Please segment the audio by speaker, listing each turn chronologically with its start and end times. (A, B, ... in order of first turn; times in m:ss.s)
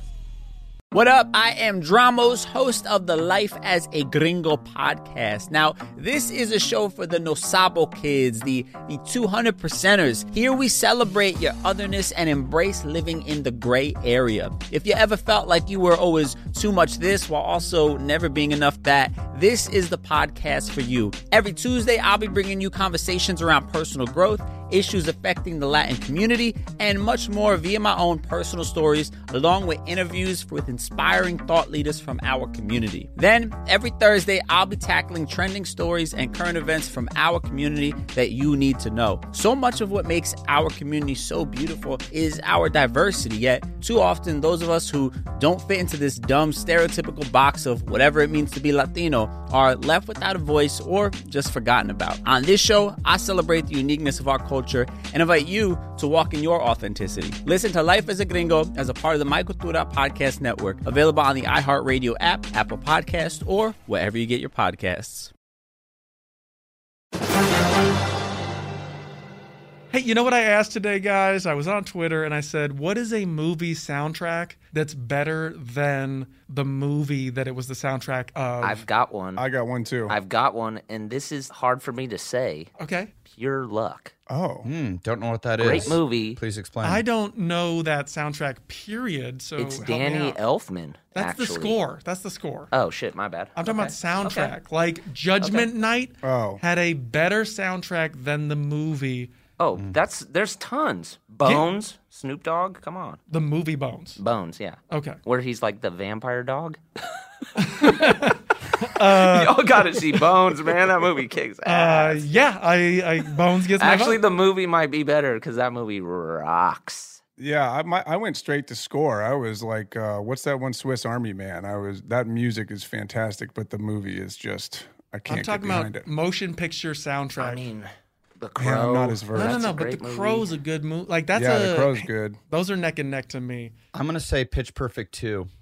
0:00.9-1:05.3 A
1:09.9-1:18.8 B
1:18.6-1:19.4 C
1:19.4-1:20.2 D
1:20.1-1:22.7 C
1:22.8-1:23.1 B
1:23.3-1:24.1 C
1:24.3-1:24.7 D
1:24.6-1:27.0 E
1:25.6-1:26.4 C
1:26.8-1:30.4 B
1:29.6-1:31.8 C
1:31.2-1:32.7 B
1:32.7-1:34.5 C
1:33.6-1:39.3 B
1:35.4-1:35.7 C
1:36.2-1:36.6 D
1:39.6-1:43.2 C
1:41.4-1:41.8 B
1:43.3-1:44.2 B
1:44.2-1:46.8 C
1:44.9-1:45.2 B
1:47.6-1:50.2 B
1:47.7-1:48.3 C
1:49.0-1:52.3 C
1:51.6-1:54.2 B
1:53.8-1:57.2 C
1:57.4-2:06.0 D
2:05.3-2:07.6 B
2:07.4-2:10.5 C
2:08.6-2:09.6 D
2:09.3-2:13.7 B
2:11.3-2:12.4 D
2:13.9-2:15.5 E